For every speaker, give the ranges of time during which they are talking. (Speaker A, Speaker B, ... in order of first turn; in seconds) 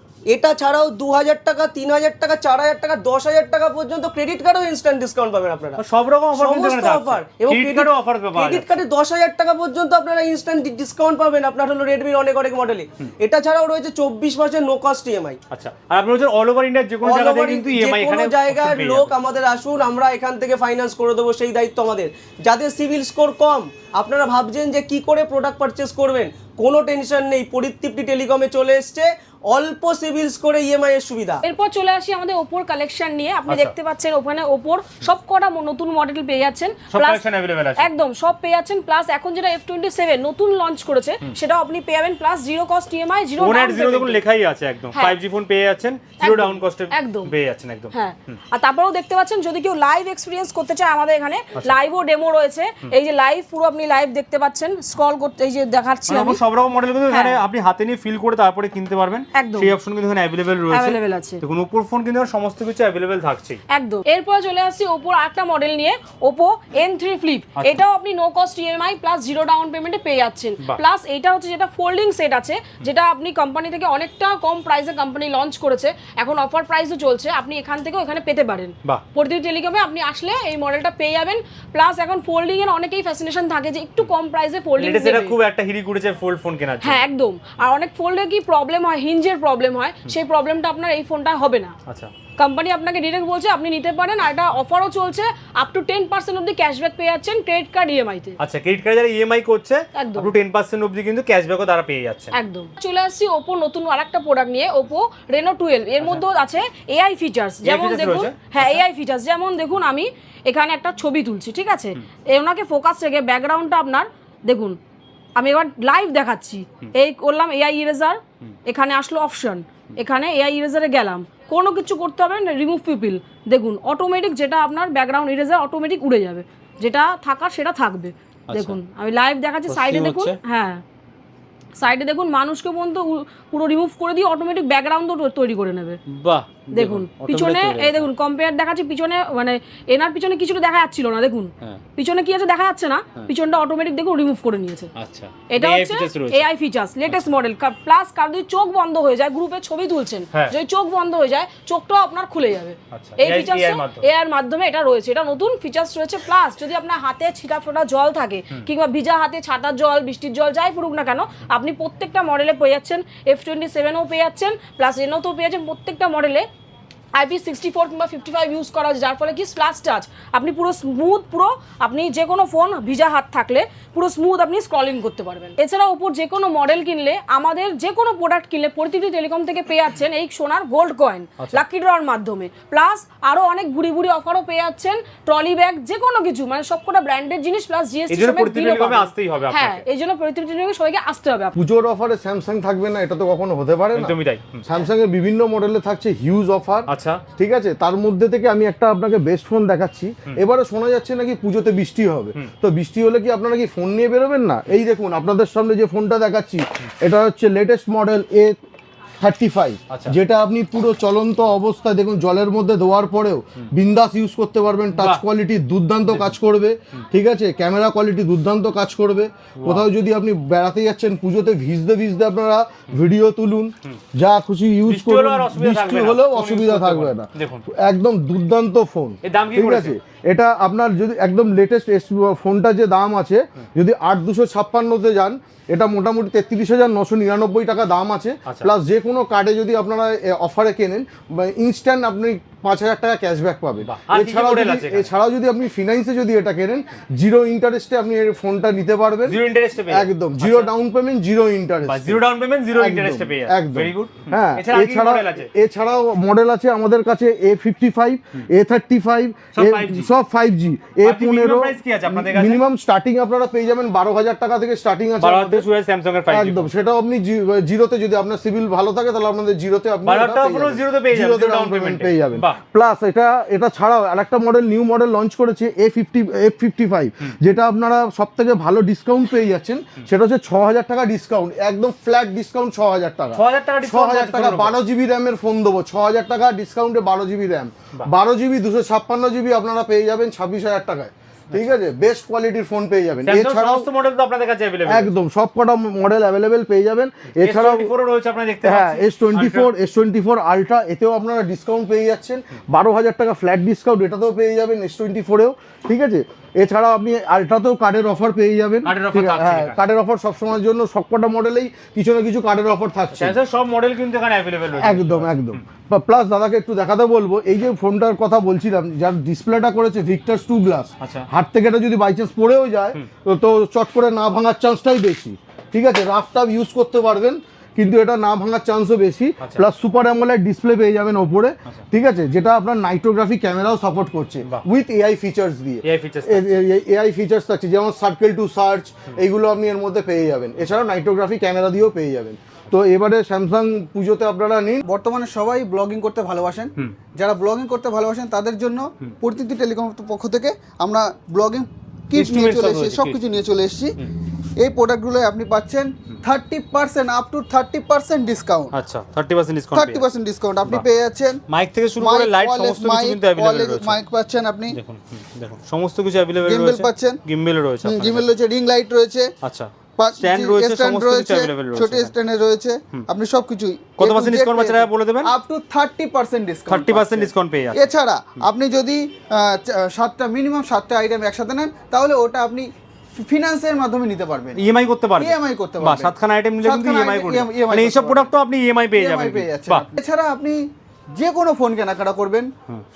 Speaker A: 0.3-5.8, 6.3-15.4, 17.0-31.4
Speaker B: 5.8-8.7, 15.5-19.1, 33.5-33.7, 36.9-37.9, 43.4-47.9, 56.1-63.6, 67.5-67.8, 84.8-87.1, 91.9-92.1, 98.4-102.3, 107.6-108.8, 128.5-128.8, 129.7-130.4, 136.1-138.1, 144.9-146.5, 152.9-154.0, 188.1-189.8, 193.9-194.7, 196.9-197.2, 214.9-215.2, 216.1-216.3, 219.6-219.8, 224.9-227.6, 229.2-229.9, 243.8-245.1, 249.3-250.7, 251.9-255.5, 259.6-260.1, 261.0-262.6, 265.2-266.6, 270.0-272.6, 283.3-284.7, 293.2-295.1, 297.4-299.7, 308.8-309.8, 313.1-315.6, 321.0-321.3, 335.8-336.5, 352.1-353.3, 358.7-360.1, 361.5-364.0, 364.7-368.3, 369.4-372.1, 374.0-375.3, 376.7-378.5, 384.5-389.8
Speaker C: 31.4-37.2, 37.8-44.2, 44.9-45.2, 46.2-47.3, 47.9-56.4, 57.1-57.4, 59.3-59.7, 60.7-61.4, 63.7-85.3, 86.8-91.7, 92.3-98.4, 99.9-100.3, 102.3-114.8, 115.3-130.8, 131.8-136.0, 136.7-144.9, 145.5-166.4, 167.1-191.5
Speaker D: 191.5-208.6, 209.2-265.6, 266.3-293.9, 294.9-297.9, 298.6-313.4, 314.8-344.8
Speaker E: 344.8-353.9, 354.6-358.8, 359.7-361.4, 362.0-364.8, 366.4-367.2, 367.8-369.3, 370.0-384.6, 385.2-388.3, 388.9-390.6, 391.1-392.5